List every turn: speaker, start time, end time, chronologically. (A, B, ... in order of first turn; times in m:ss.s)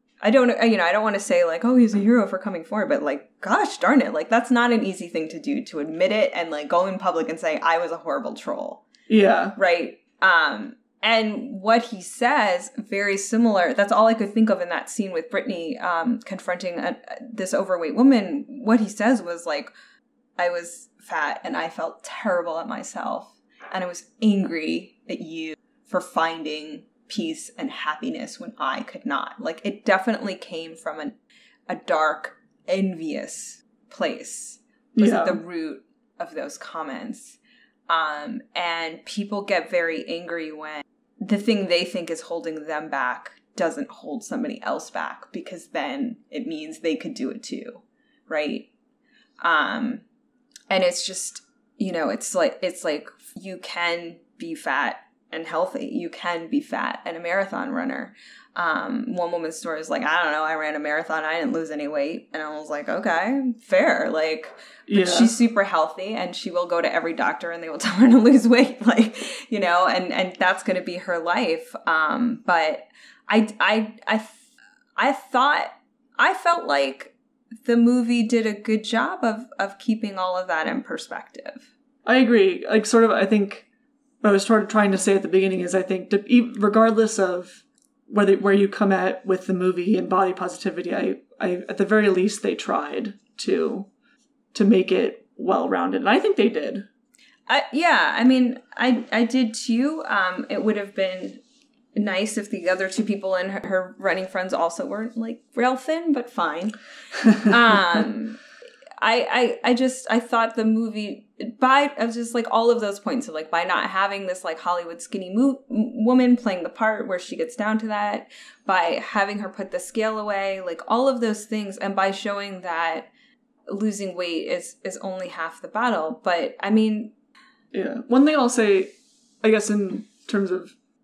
0:00.2-0:08.8 A
0:09.1-0:09.6 B
0:09.6-0:19.7 A
0:20.4-0:31.2 A
0:31.7-0:48.7 A
0:34.9-0:35.4 B
0:49.4-0:50.0 A
0:50.7-1:14.4 A
1:04.9-1:05.3 B
1:15.0-1:21.7 A
1:22.0-1:23.6 B
1:24.2-1:33.9 B
1:34.5-1:36.8 B
1:37.5-1:41.4 A
1:42.0-1:46.8 A
1:47.3-1:48.4 A
1:49.0-2:03.1 A
2:03.7-2:07.1 A
2:07.7-2:10.7 B